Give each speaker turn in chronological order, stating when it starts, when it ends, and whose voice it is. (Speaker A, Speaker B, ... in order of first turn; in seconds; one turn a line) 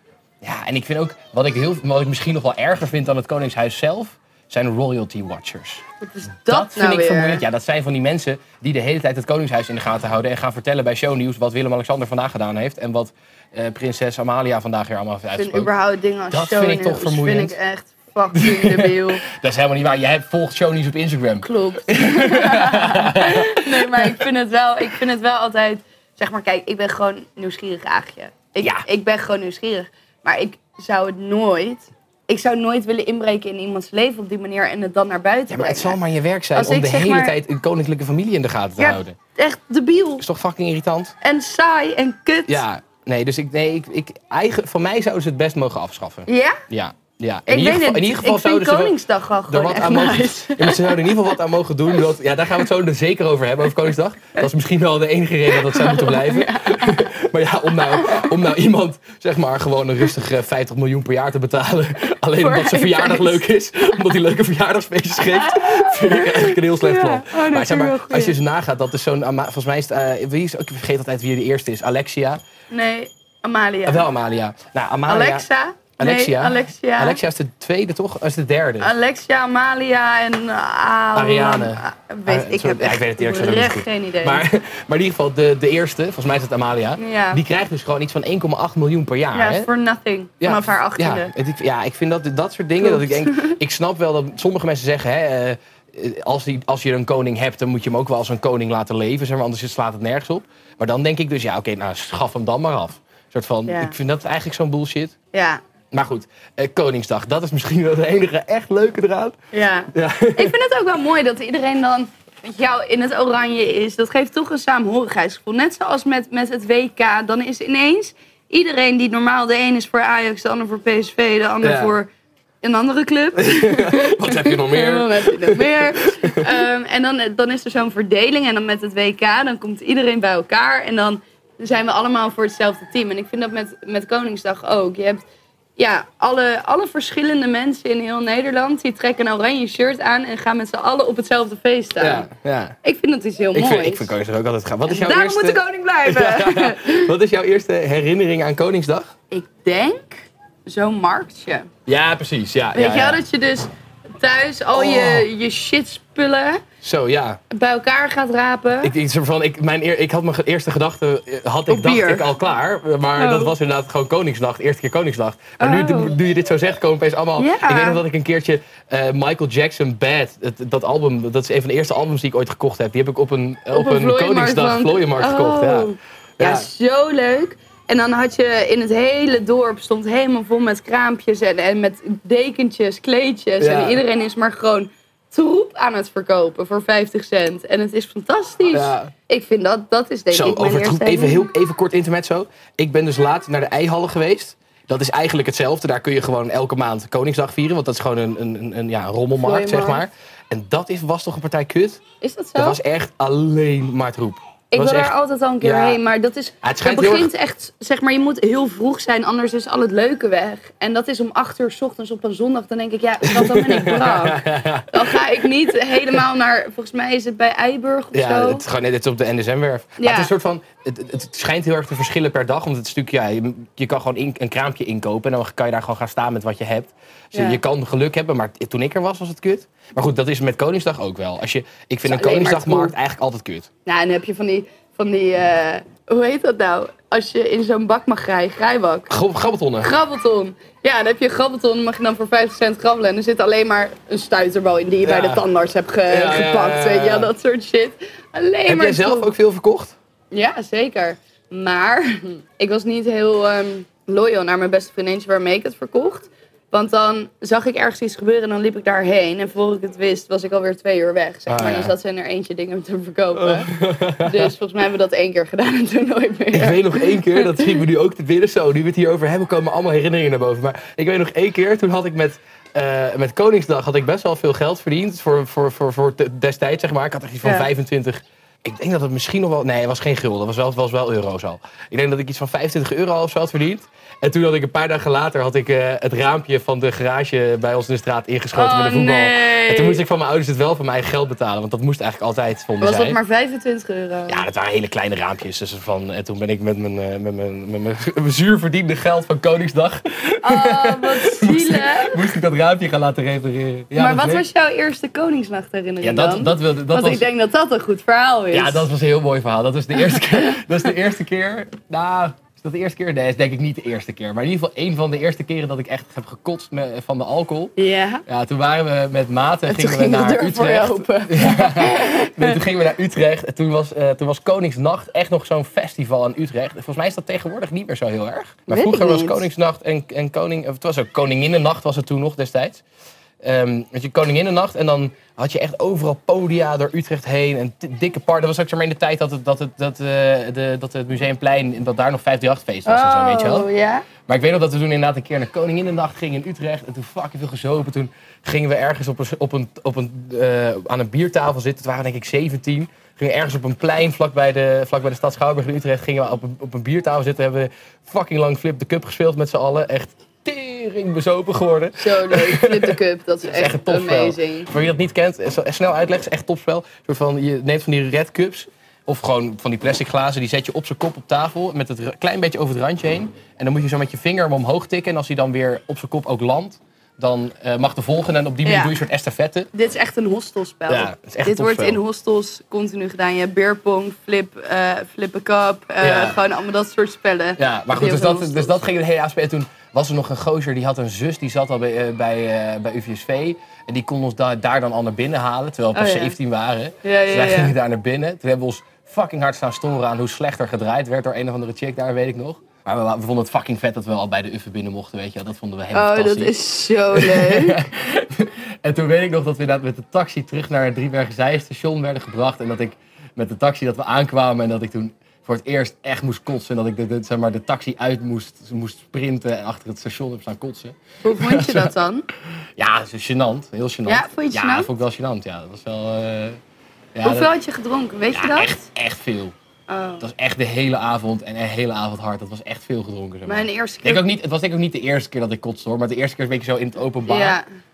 Speaker A: 0.4-5.8
Speaker B: 6.0-7.4
Speaker A: 6.5-15.7
Speaker B: 15.4-19.2
Speaker A: 16.3-17.6
Speaker A: 18.3-24.3
Speaker B: 21.4-36.0
Speaker A: 28.6-28.9
Speaker A: 35.5-39.2
Speaker B: 36.5-37.4
Speaker B: 38.8-40.2
Speaker A: 40.2-41.1
Speaker B: 41.2-42.6
Speaker A: 42.5-48.9
Speaker B: 46.3-46.6
Speaker B: 47.5-51.2
Speaker A: 49.5-72.4
Speaker B: 55.5-57.0
Speaker B: 58.0-58.3
Speaker B: 62.4-63.4
Speaker B: 65.3-68.4
Speaker B: 72.7-74.1
Speaker A: 73.8-75.5
Speaker B: 75.1-77.2
Speaker A: 76.0-78.9
Speaker B: 78.8-84.4
Speaker A: 81.2-89.7
Speaker B: 87.0-87.4
Speaker B: 89.3-91.3
Speaker A: 90.4-105.2
Speaker B: 92.8-93.6
Speaker B: 103.7-104.0
Speaker B: 105.3-105.6
Speaker A: 105.9-109.4
Speaker B: 109.5-122.1
Speaker A: 109.9-110.5
Speaker A: 121.6-122.0
Speaker B: 122.6-135.2
Speaker A: 123.4-126.6
Speaker B: 135.8-142.3
Speaker A: 142.0-142.8
Speaker B: 142.8-144.1
Speaker A: 143.5-149.1
Speaker B: 144.9-147.1
Speaker B: 149.3-151.7
Speaker A: 151.9-153.2
Speaker B: 152.7-156.6
Speaker A: 154.7-155.3
Speaker A: 156.8-157.4
Speaker B: 157.5-158.9
Speaker A: 158.8-176.7
Speaker B: 161.7-162.3
Speaker B: 163.2-163.5
Speaker B: 165.6-166.1
Speaker B: 167.4-168.0
Speaker B: 173.7-191.5
Speaker A: 183.6-184.0
Speaker A: 188.7-189.1
Speaker A: 190.3-202.0
Speaker B: 199.4-200.0
Speaker B: 202.2-202.8
Speaker A: 202.6-206.0
Speaker B: 204.7-218.7
Speaker A: 206.6-207.3
Speaker A: 213.2-215.4
Speaker A: 218.1-233.7
Speaker B: 220.0-220.3
Speaker B: 227.3-227.6
Speaker B: 232.1-232.9
Speaker B: 233.9-239.1
Speaker A: 239.1-239.9
Speaker B: 239.8-249.3
Speaker A: 245.0-245.4
Speaker A: 246.1-247.3
Speaker A: 248.7-250.0
Speaker B: 250.3-267.8
Speaker A: 261.5-261.9
Speaker A: 263.4-264.5
Speaker A: 266.5-293.2
Speaker B: 288.6-290.0
Speaker B: 292.8-294.5
Speaker A: 294.3-304.4
Speaker B: 300.4-302.2
Speaker B: 303.9-308.9
Speaker A: 306.0-307.3
Speaker A: 308.5-317.8
Speaker B: 310.1-310.6
Speaker B: 317.8-318.2
Speaker A: 318.3-332.8
Speaker B: 319.7-322.6
Speaker B: 328.7-329.4
Speaker A: 333.4-343.7
Speaker B: 342.9-344.1
Speaker A: 344.3-379.7
Speaker B: 362.0-364.7
Speaker B: 378.6-378.9
Speaker B: 379.7-388.8
Speaker A: 380.9-382.0
Speaker A: 386.0-386.4
Speaker A: 387.6-406.6
Speaker B: 395.9-396.4
Speaker B: 397.0-397.7
Speaker B: 405.9-407.8
Speaker A: 407.1-421.9
Speaker B: 421.2-422.2
Speaker A: 422.8-426.6
Speaker B: 424.1-424.9
Speaker A: 427.1-427.5
Speaker B: 427.2-428.7
Speaker A: 428.3-429.5
Speaker B: 429.9-430.3
Speaker A: 430.2-437.6
Speaker B: 433.5-434.2
Speaker B: 437.3-437.7